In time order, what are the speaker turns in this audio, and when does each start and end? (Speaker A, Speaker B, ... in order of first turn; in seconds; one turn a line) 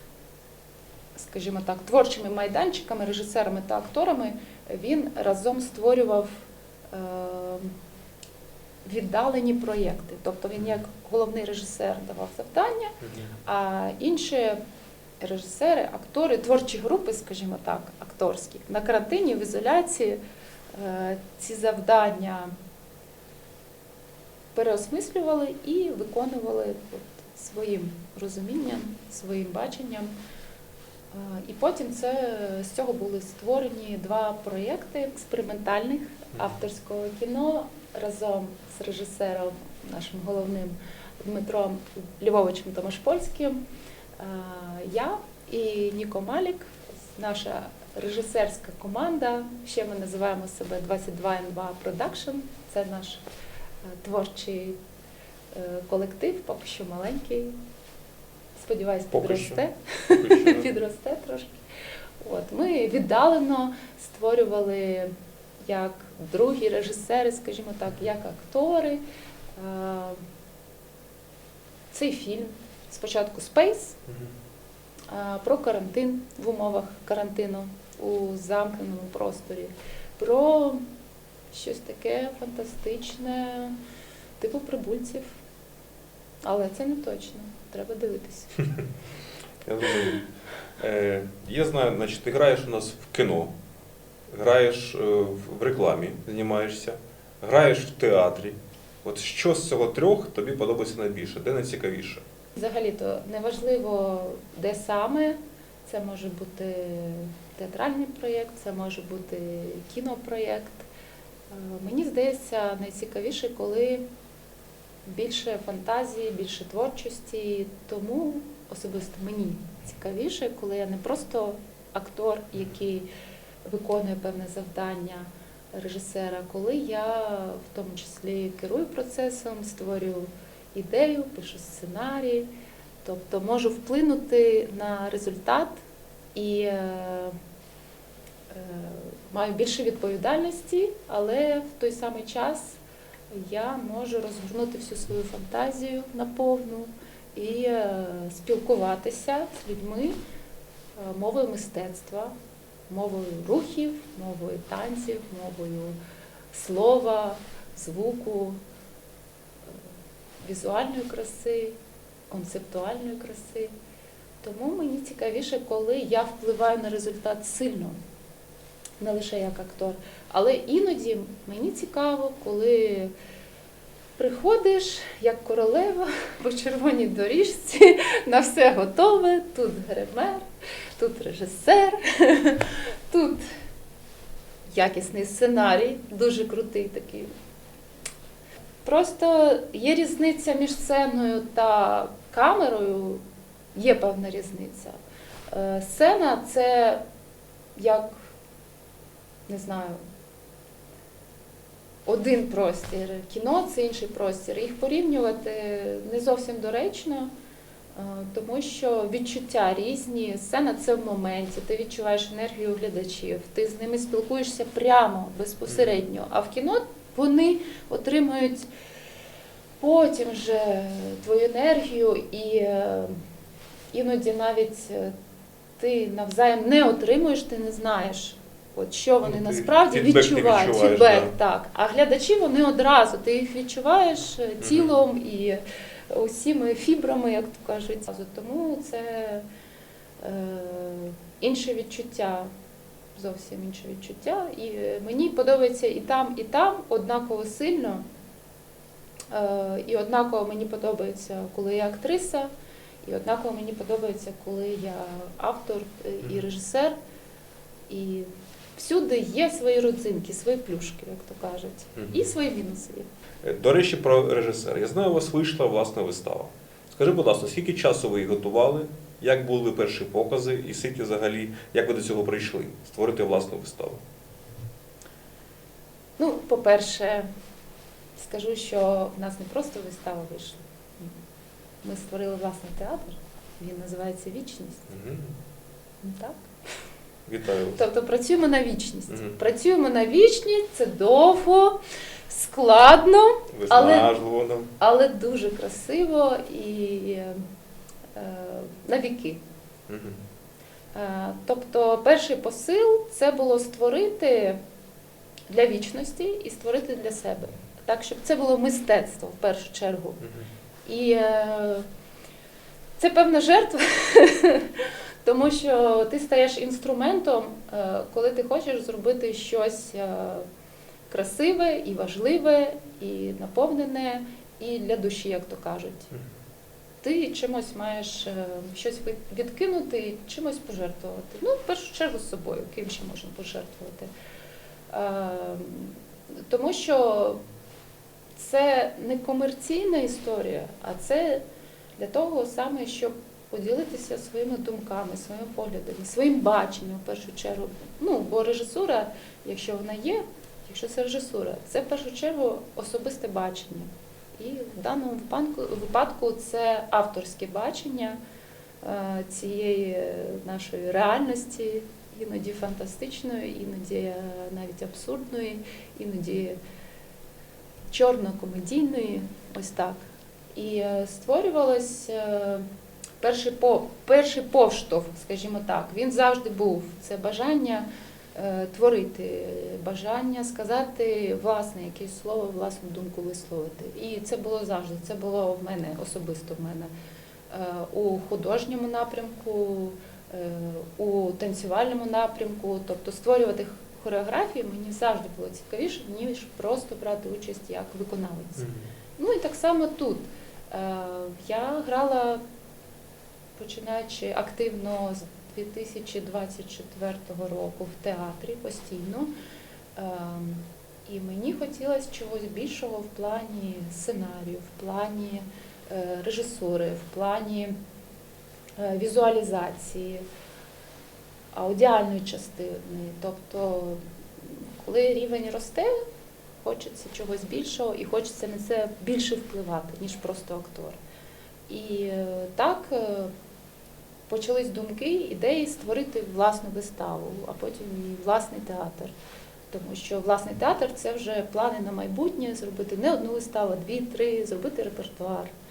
Speaker A: 1.1-7.7
Speaker A: 8.8-14.6
Speaker B: 13.0-13.3
Speaker A: 15.2-20.2
Speaker A: 20.7-22.5
Speaker A: 24.5-30.1
Speaker A: 31.1-43.6
Speaker A: 44.2-53.2
Speaker A: 53.9-54.8
Speaker A: 55.5-57.6
Speaker A: 58.6-61.6
Speaker B: 59.1-59.6
Speaker B: 60.2-60.8
Speaker A: 62.2-65.1
Speaker A: 65.7-69.0
Speaker A: 69.6-70.2
Speaker A: 71.9-74.0
Speaker B: 74.1-74.3
Speaker A: 75.1-80.8
Speaker A: 81.5-83.8
Speaker A: 84.4-85.4
Speaker A: 86.5-88.7
Speaker B: 89.6-90.3
Speaker B: 90.8-93.5
Speaker B: 94.3-102.2
Speaker A: 102.6-110.9
Speaker A: 111.5-114.0
Speaker A: 115.1-123.1
Speaker A: 123.7-132.5
Speaker A: 133.0-135.8
Speaker A: 136.3-137.3
Speaker A: 138.5-142.8
Speaker A: 143.3-150.2
Speaker A: 151.0-152.3
Speaker A: 152.9-156.0
Speaker A: 156.5-158.6
Speaker A: 160.4-161.8
Speaker A: 162.3-163.7
Speaker A: 164.4-168.0
Speaker A: 169.0-173.1
Speaker A: 174.2-180.5
Speaker A: 181.0-183.4
Speaker A: 184.7-187.3
Speaker A: 188.8-193.2
Speaker A: 193.8-195.0
Speaker A: 195.5-197.0
Speaker A: 197.8-198.3
Speaker A: 199.5-200.0
Speaker A: 202.1-207.3
Speaker A: 207.9-218.7
Speaker B: 215.7-215.9
Speaker A: 219.8-223.2
Speaker A: 223.9-225.1
Speaker A: 225.8-239.4
Speaker B: 229.2-231.3
Speaker B: 234.6-234.9
Speaker A: 240.2-242.5
Speaker A: 243.2-248.1
Speaker A: 249.3-252.5
Speaker A: 253.0-256.9
Speaker A: 257.9-263.1
Speaker B: 262.0-262.2
Speaker B: 263.4-274.0
Speaker A: 276.2-277.3
Speaker A: 278.2-281.1
Speaker A: 281.8-284.9
Speaker B: 284.9-285.4
Speaker A: 286.0-286.4
Speaker B: 287.3-287.8
Speaker A: 287.8-291.8
Speaker B: 289.1-289.4
Speaker A: 292.3-294.1
Speaker B: 293.5-294.7
Speaker A: 294.8-297.4
Speaker A: 298.1-299.4
Speaker B: 299.9-300.2
Speaker A: 300.9-304.6
Speaker A: 305.5-310.2
Speaker B: 310.2-310.5
Speaker A: 310.9-311.9
Speaker A: 313.0-320.5
Speaker A: 321.1-326.1
Speaker A: 327.0-334.1
Speaker A: 334.9-336.0
Speaker A: 336.5-337.4
Speaker A: 338.4-341.4
Speaker A: 342.0-358.2
Speaker A: 358.8-366.6
Speaker A: 367.9-370.0
Speaker A: 370.6-372.7
Speaker A: 373.2-386.9
Speaker A: 387.5-402.4
Speaker B: 398.6-398.9
Speaker A: 403.6-409.3
Speaker A: 410.0-417.8
Speaker A: 418.8-420.2
Speaker A: 421.5-425.9
Speaker A: 426.6-431.0
Speaker A: 431.7-433.3
Speaker A: 434.3-439.1
Speaker A: 439.7-445.5